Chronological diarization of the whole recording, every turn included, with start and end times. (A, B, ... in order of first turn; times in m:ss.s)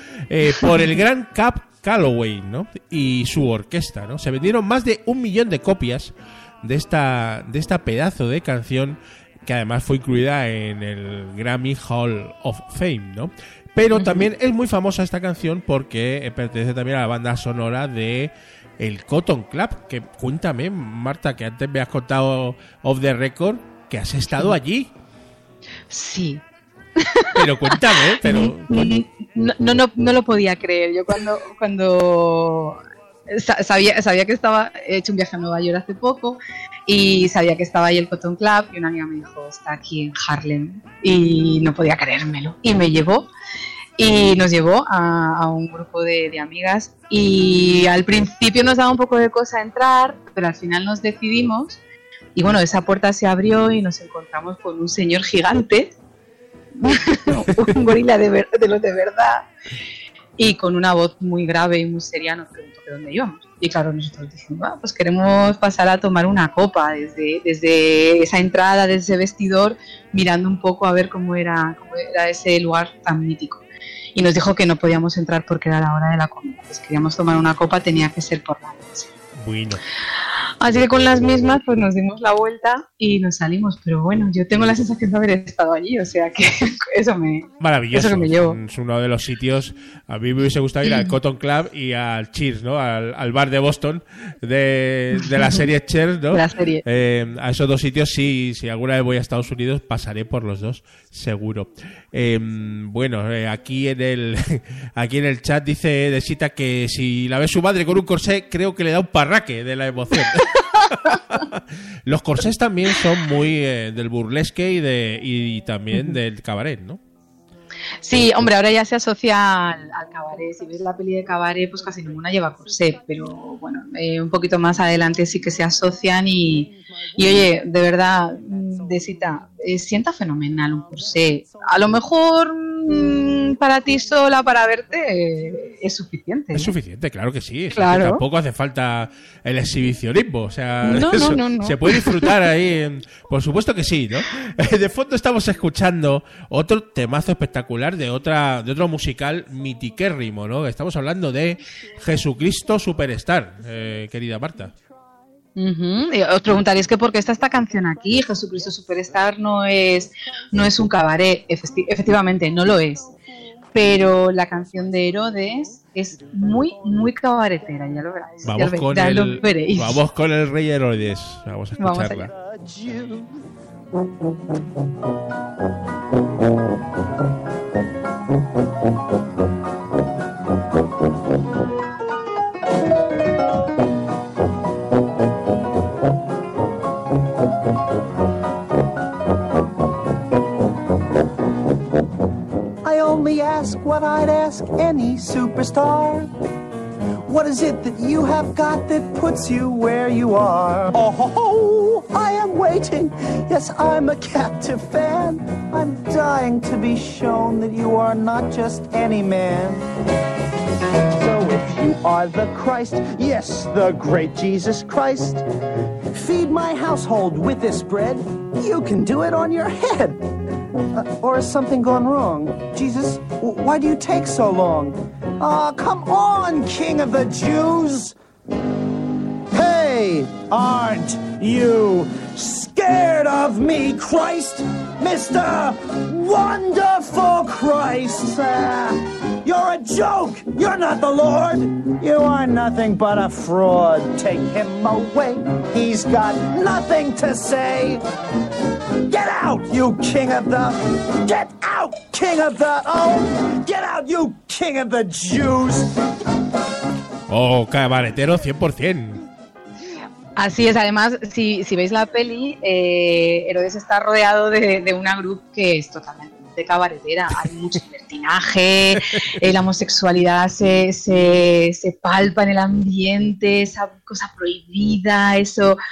0:00.3-0:24.9 A
0:13.9-0:14.3 B
0:25.9-0:26.4 B
0:27.0-0:43.3 B
0:27.4-0:28.9 A
0:44.0-0:51.8 B
0:52.4-0:55.9 B
0:56.8-0:59.5 B
1:00.4-1:13.6 B
1:14.2-1:19.1 B
1:19.4-1:19.8 A
1:20.6-1:28.6 B
1:27.6-1:57.0 A
1:30.8-1:31.1 B
1:36.3-1:36.8 B
1:58.0-2:16.8 B
2:16.5-2:34.7 A
2:17.7-2:18.2 B
2:20.8-2:22.4 B
2:35.6-2:43.1 B
2:43.7-2:50.0 B
2:48.4-2:52.3 A
2:51.8-2:52.3 B
2:52.4-2:53.4 C
3:12.8-3:16.3 C
3:17.2-3:29.8 C
3:31.1-3:35.4 C
3:36.1-3:40.3 C
3:40.9-3:48.2 C
3:49.5-4:08.0 C
4:09.1-4:15.9 C
4:17.3-4:19.2 A
4:20.4-4:35.8 B